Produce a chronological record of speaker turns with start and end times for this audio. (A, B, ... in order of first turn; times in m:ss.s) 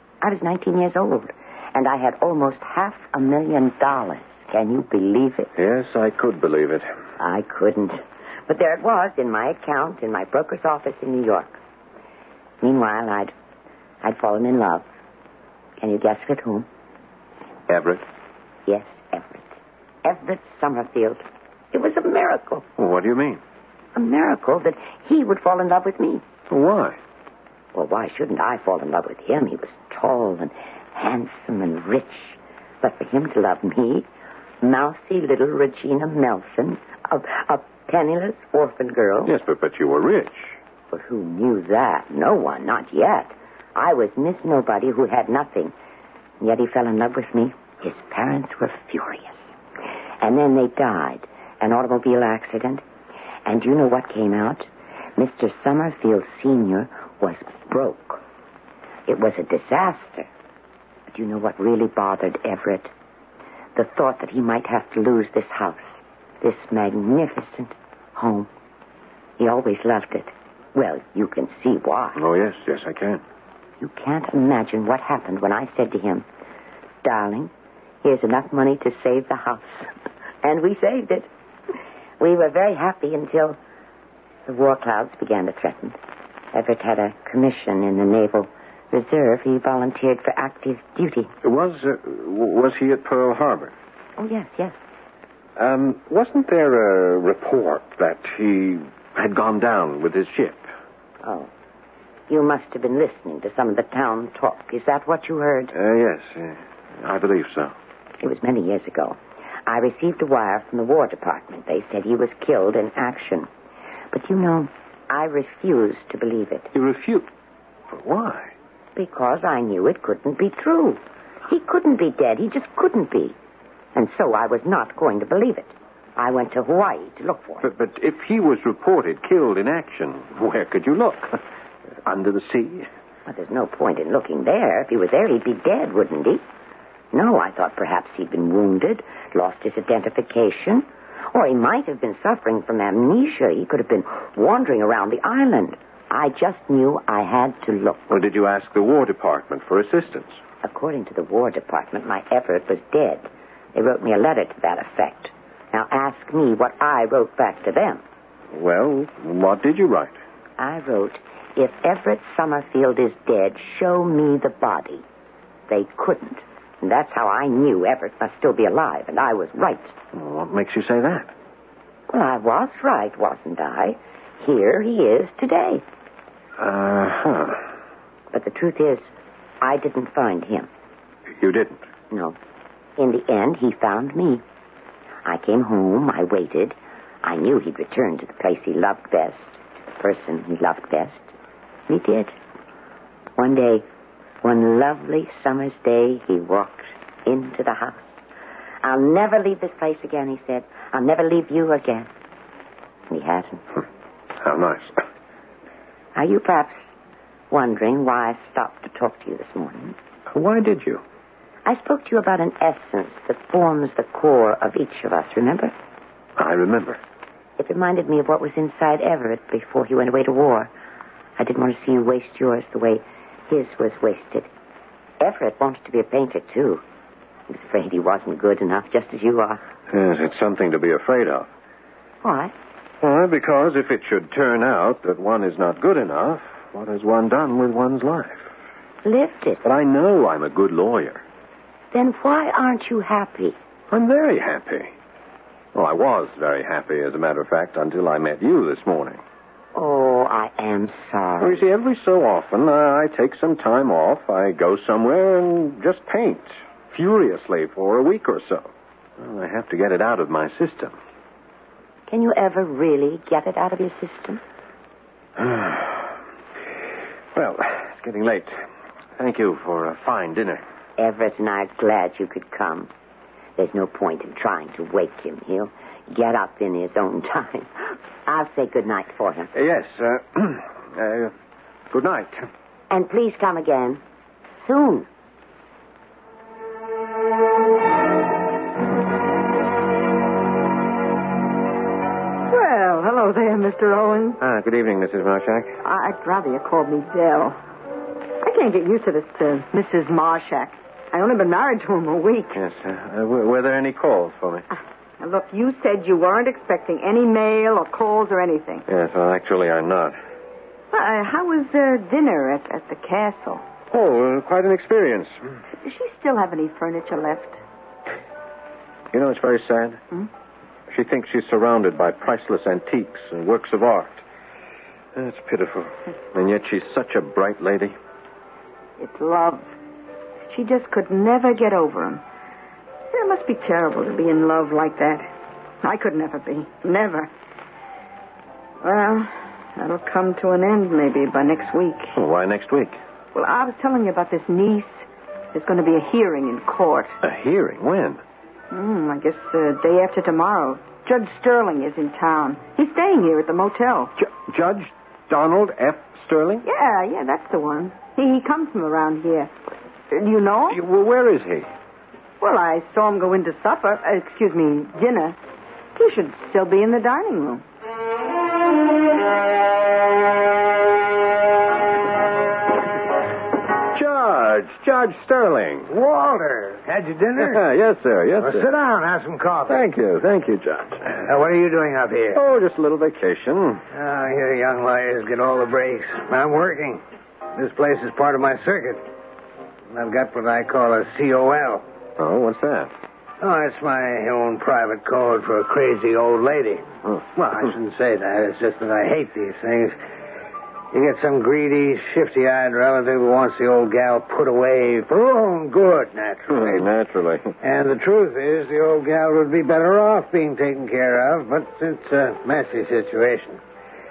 0:00.2-0:05.5 A
0:05.6-0:06.8 B
0:07.2-0:11.6 A
0:12.6-0:13.3 A
0:14.0-0:14.8 A
0:15.8-0:16.7 A
0:17.7-0:18.0 B
0:18.7-0:22.6 A
0:22.8-0:23.4 B
0:23.9-0:26.2 A
0:26.5-0:27.0 B
0:27.7-0:34.1 A
0:34.6-0:39.3 A
0:39.2-0:40.6 B
0:40.9-0:45.7 A
0:46.4-0:49.5 A
0:50.2-0:52.8 A
0:53.4-0:58.2 A
0:59.1-1:00.3 A
1:01.1-1:02.9 A
1:03.7-1:08.5 A
1:09.4-1:12.2 A
1:12.2-1:13.2 B
1:13.8-1:16.2 A
1:17.0-1:17.5 A
1:18.0-1:19.9 A
1:20.4-1:21.3 A
1:22.2-1:23.6 A
1:24.4-1:26.0 A
1:26.5-1:31.3 A
1:31.4-1:33.7 B
1:34.2-1:34.8 A
1:35.6-1:40.6 B
1:41.2-1:41.5 A
1:42.3-1:45.7 A
1:45.7-1:47.7 B
1:48.2-1:53.5 A
1:54.1-1:56.7 A
1:56.7-1:57.3 B
1:57.9-1:58.5 B
1:59.0-2:03.4 A
2:03.9-2:07.7 A
2:07.6-2:11.4 B
2:12.0-2:12.9 B
2:13.3-2:16.4 A
2:17.1-2:28.1 A
2:28.1-2:30.4 B
2:30.6-2:38.0 A
2:38.5-2:40.1 B
2:40.6-2:45.0 A
2:45.7-2:49.9 A
2:50.1-2:51.3 B
2:52.1-2:55.8 A
2:56.6-2:57.6 B
2:58.3-2:59.1 A
2:59.6-3:00.7 A
3:01.4-3:01.8 B
3:02.1-3:02.4 A
3:03.0-3:04.4 A
3:05.2-3:11.3 A
3:11.9-3:12.4 A
3:13.4-3:13.8 A
3:14.4-3:18.1 A
3:18.8-3:22.1 A
3:23.1-3:23.6 A
3:24.4-3:24.9 B
3:26.1-3:26.8 A
3:27.5-3:30.0 A
3:30.3-3:31.0 B
3:31.6-3:35.7 A
3:36.4-3:37.0 B
3:37.6-3:40.7 A
3:41.4-3:44.5 A
3:45.2-3:46.8 A
3:47.5-3:49.6 A
3:49.9-3:51.5 B
3:52.2-3:52.5 A
3:53.0-3:58.5 B
3:59.0-3:59.6 A
3:59.6-4:01.2 B
4:01.9-4:03.6 A
4:03.9-4:04.9 B
4:05.7-4:09.2 B
4:09.7-4:11.6 A
4:11.4-4:20.9 B
4:22.1-4:24.4 A
4:25.4-4:26.0 B
4:27.3-4:28.5 B
4:29.2-4:30.6 B
4:31.0-4:32.9 A
4:33.6-4:39.5 A
4:39.5-4:41.3 B
4:41.9-4:42.4 B
4:42.9-4:44.0 A
4:44.6-4:45.1 A
4:52.5-4:54.4 C
4:54.4-4:55.8 B
4:55.8-4:57.6 C
4:58.4-5:02.6 C
5:02.5-5:04.6 B
5:05.2-5:08.8 C
5:08.9-5:10.2 B
5:10.9-5:13.6 C
5:13.9-5:15.3 B
5:15.8-5:17.6 C
5:19.1-5:20.0 B
5:20.9-5:24.2 B
5:25.1-5:27.9 B
5:29.0-5:29.7 C
5:30.5-5:32.2 C
5:33.1-5:35.3 C
5:35.8-5:37.3 C
5:38.8-5:42.2 C
5:42.1-5:43.0 B
5:43.3-5:47.2 C
5:47.2-5:48.2 B
5:48.7-5:54.1 C
5:54.2-5:56.6 B
5:56.6-5:59.5 C
6:00.1-6:00.8 C
6:00.7-6:01.7 B
6:02.4-6:05.4 C
6:06.0-6:07.6 C
6:13.9-6:15.9 B
6:15.9-6:17.6 D
6:17.4-6:18.7 B
6:18.4-6:19.8 D
6:19.7-6:21.2 B
6:21.1-6:22.4 D
6:22.3-6:23.8 B
6:23.9-6:27.0 D
6:27.5-6:29.0 D
6:29.9-6:31.8 D
6:32.2-6:32.9 B
6:33.4-6:40.0 D
6:40.9-6:46.9 D
6:46.5-6:47.5 B
6:47.6-6:53.6 D